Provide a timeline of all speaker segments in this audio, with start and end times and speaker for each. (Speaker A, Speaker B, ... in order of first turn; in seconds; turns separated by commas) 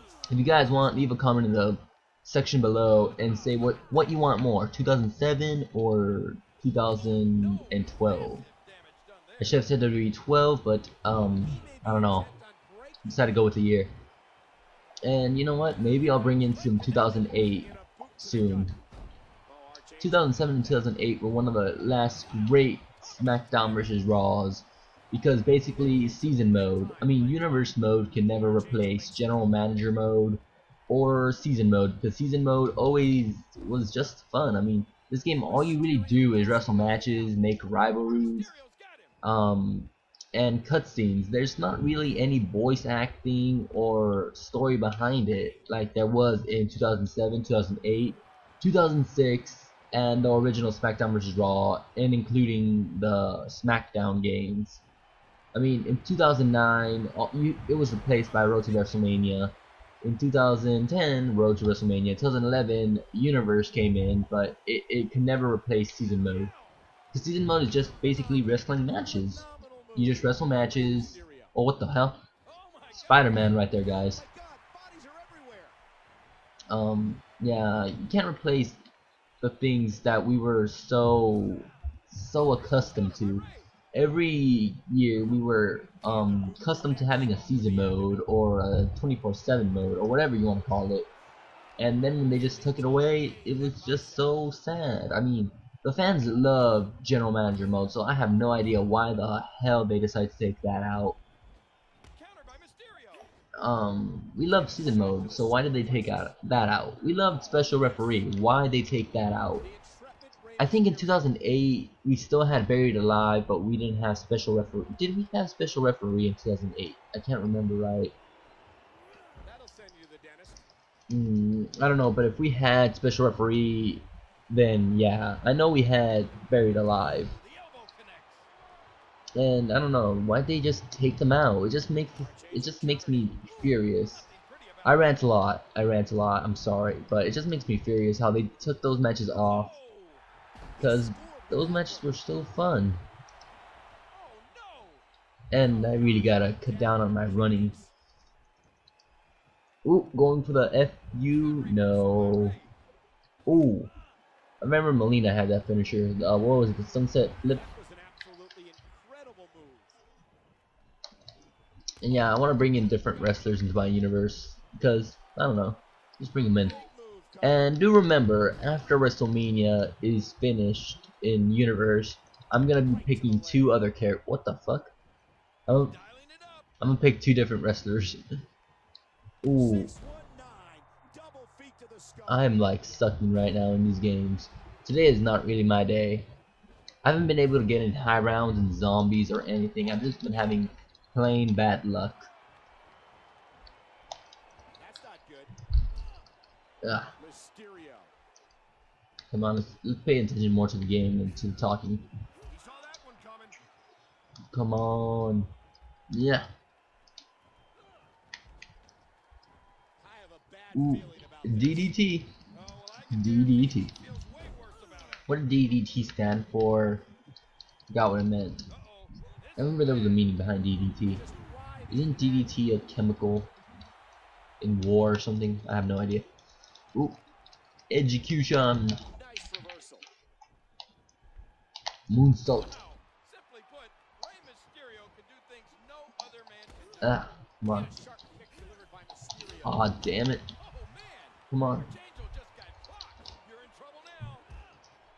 Speaker A: 0.3-8.4, Speaker B: 7.2-9.5, Speaker A: 9.4-12.3, Speaker B: 11.4-13.3, Speaker A: 13.1-13.9, Speaker A: 15.1-18.8, Speaker B: 16.0-18.8, Speaker B: 19.5-20.7, Speaker A: 20.0-38.5, Speaker B: 25.6-29.6, Speaker B: 35.4-39.1, Speaker A: 39.2-54.8, Speaker A: 55.5-66.5, Speaker B: 58.6-59.1, Speaker B: 66.2-66.7, Speaker A: 67.1-69.4, Speaker B: 68.0-71.5, Speaker A: 70.0-72.2, Speaker B: 72.5-75.8, Speaker A: 72.9-74.2, Speaker A: 76.7-78.8, Speaker A: 79.4-91.1, Speaker B: 82.6-83.6, Speaker B: 86.1-88.2, Speaker A: 91.8-101.2, Speaker B: 92.3-94.4, Speaker B: 102.2-103.3, Speaker A: 103.6-109.7, Speaker B: 104.6-106.3, Speaker B: 107.5-108.0, Speaker B: 109.6-111.3, Speaker A: 110.6-118.2, Speaker B: 119.4-120.7, Speaker A: 121.1-127.3, Speaker B: 127.2-128.5, Speaker A: 129.4-134.3, Speaker B: 132.2-135.1, Speaker A: 134.8-139.7, Speaker B: 139.3-140.2, Speaker B: 140.8-142.2, Speaker A: 140.8-143.0, Speaker B: 144.1-145.0, Speaker A: 145.5-147.8, Speaker B: 145.6-147.9, Speaker A: 149.8-152.6, Speaker B: 151.4-152.7, Speaker A: 153.5-153.9, Speaker A: 154.6-157.6, Speaker B: 157.5-159.9, Speaker A: 162.0-166.8, Speaker B: 162.9-163.5, Speaker B: 166.7-167.8, Speaker A: 167.4-174.9, Speaker B: 172.8-173.8, Speaker A: 175.7-176.0, Speaker B: 176.0-176.7, Speaker A: 176.8-178.2, Speaker A: 179.4-179.9, Speaker B: 179.5-182.5, Speaker A: 182.3-186.3, Speaker A: 187.1-192.3, Speaker B: 194.8-195.6, Speaker A: 196.8-197.1, Speaker B: 197.2-198.1, Speaker A: 199.3-202.1, Speaker B: 202.4-203.6, Speaker A: 204.5-205.5, Speaker A: 206.1-206.5, Speaker B: 210.0-215.3, Speaker A: 210.8-212.4, Speaker A: 213.1-213.9, Speaker A: 215.3-217.1, Speaker A: 217.9-218.7, Speaker B: 218.7-220.2, Speaker A: 219.6-221.2, Speaker B: 221.1-222.6, Speaker A: 221.9-223.5, Speaker A: 224.6-226.3, Speaker A: 227.9-229.0, Speaker B: 229.1-230.1, Speaker A: 232.1-232.8, Speaker B: 232.7-240.0, Speaker A: 237.0-237.9, Speaker A: 239.6-240.5, Speaker B: 240.6-244.5, Speaker A: 241.5-241.9